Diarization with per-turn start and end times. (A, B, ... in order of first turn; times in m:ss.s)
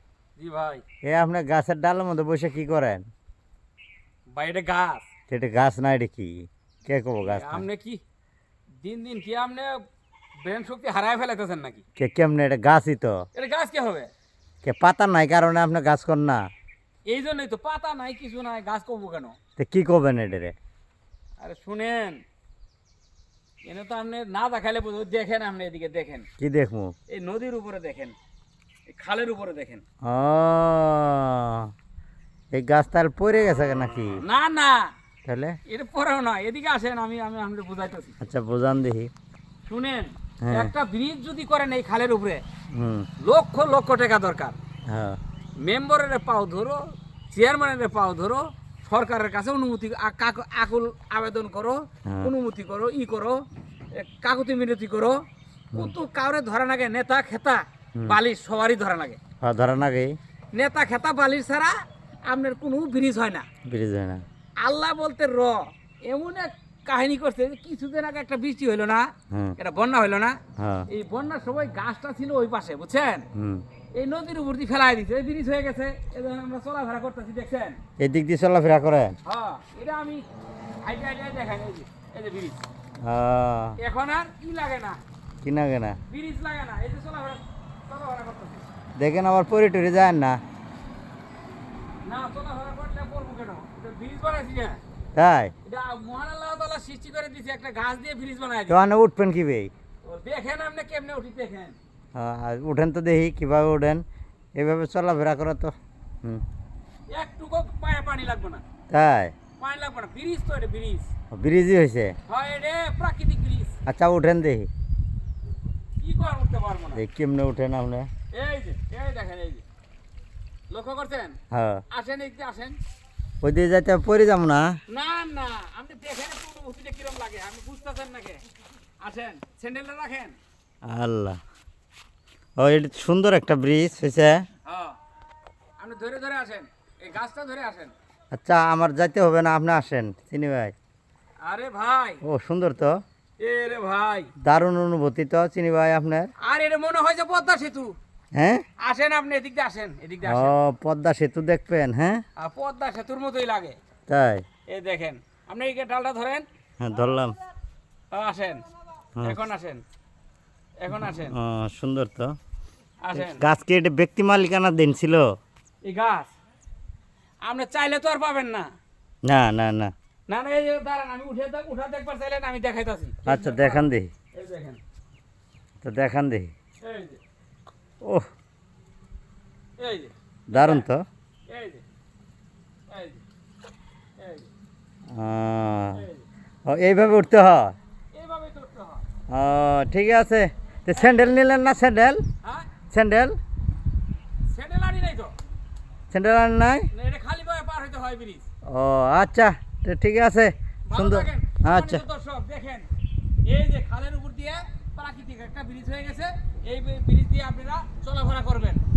0:00.4-0:00.8 A
0:01.0-0:03.1 B
0:04.3-0:05.0 A
0:05.3-0:07.6 B
0:07.2-0:08.0 A
0:08.8-0:09.8 A
0:10.4-0:11.8 A
0:12.0-0:13.2 B
0:13.3-0:14.1 A
0:14.6-0:16.5 B
0:17.1-0:19.4 A
0:19.6-0:20.6 B
0:21.4-0:22.2 A
0:23.6-0:26.3 A
0:26.4-0:26.9 B
0:27.1-0:28.2 A
0:28.9-0:29.8 A
0:30.0-0:31.7 B
0:32.5-0:34.2 B
0:34.2-0:34.9 A
0:35.2-0:35.6 B
0:35.7-0:38.2 A
0:38.2-0:39.1 B
0:39.7-0:42.4 A
0:40.4-0:40.7 B
0:42.7-0:43.1 B
0:43.2-0:44.6 A
0:44.9-0:45.2 B
0:45.6-0:46.8 A
0:47.3-0:53.4 A
0:52.1-0:52.3 B
0:53.9-0:55.2 A
0:55.8-0:59.2 A
0:59.4-1:00.2 B
1:00.5-1:01.7 A
1:02.3-1:03.5 A
1:03.7-1:04.2 B
1:04.6-1:13.3 A
1:10.6-1:10.9 B
1:13.4-1:13.6 B
1:13.9-1:17.8 A
1:18.0-1:19.2 B
1:19.2-1:20.2 A
1:20.8-1:22.6 A
1:23.0-1:23.8 B
1:23.8-1:25.0 A
1:25.4-1:26.0 B
1:26.1-1:28.6 A
1:29.0-1:30.4 B
1:32.0-1:34.8 A
1:35.2-1:35.5 B
1:35.6-1:38.8 A
1:38.7-1:39.7 B
1:40.0-1:41.8 A
1:42.2-1:44.0 B
1:44.6-1:46.4 B
1:47.1-1:48.6 A
1:48.9-1:49.4 B
1:49.6-1:51.1 A
1:51.3-1:52.2 B
1:52.3-1:53.7 A
1:53.9-1:54.7 B
1:56.0-1:57.0 A
1:56.9-1:58.1 B
1:58.3-1:59.6 A
2:00.7-2:01.4 A
2:01.5-2:01.8 B
2:01.9-2:02.8 A
2:03.4-2:04.8 B
2:04.9-2:08.4 A
2:09.0-2:10.4 A
2:10.8-2:11.4 B
2:12.6-2:14.5 B
2:14.6-2:15.0 A
2:15.8-2:17.9 A
2:18.3-2:20.7 B
2:21.4-2:22.2 A
2:22.2-2:23.0 B
2:23.4-2:24.3 A
2:24.4-2:26.3 B
2:26.4-2:28.0 A
2:28.3-2:28.6 B
2:28.8-2:30.5 A
2:30.2-2:32.2 B
2:32.4-2:33.8 A
2:34.1-2:34.4 B
2:34.7-2:36.5 A
2:36.8-2:37.4 B
2:38.1-2:38.7 A
2:39.2-2:39.8 A
2:40.8-2:41.4 A
2:40.9-2:42.4 B
2:43.0-2:43.5 A
2:43.1-2:45.3 B
2:45.8-2:46.3 A
2:47.4-2:48.7 A
2:49.2-2:49.9 B
2:50.3-2:54.8 A
2:53.3-2:54.1 B
2:55.8-2:56.5 B
2:56.8-2:57.2 A
2:58.0-2:58.3 B
2:59.8-3:00.9 A
3:00.5-3:01.0 B
3:01.5-3:01.8 A
3:02.9-3:03.2 A
3:04.2-3:04.5 A
3:05.1-3:06.0 B
3:05.9-3:06.2 A
3:06.7-3:07.8 B
3:08.1-3:09.0 A
3:09.3-3:12.2 B
3:10.9-3:11.3 A
3:12.4-3:12.7 A
3:12.9-3:13.4 B
3:14.5-3:15.4 A
3:16.1-3:16.9 B
3:16.9-3:18.5 A
3:18.7-3:22.0 B
3:20.9-3:22.9 A
3:23.5-3:28.8 A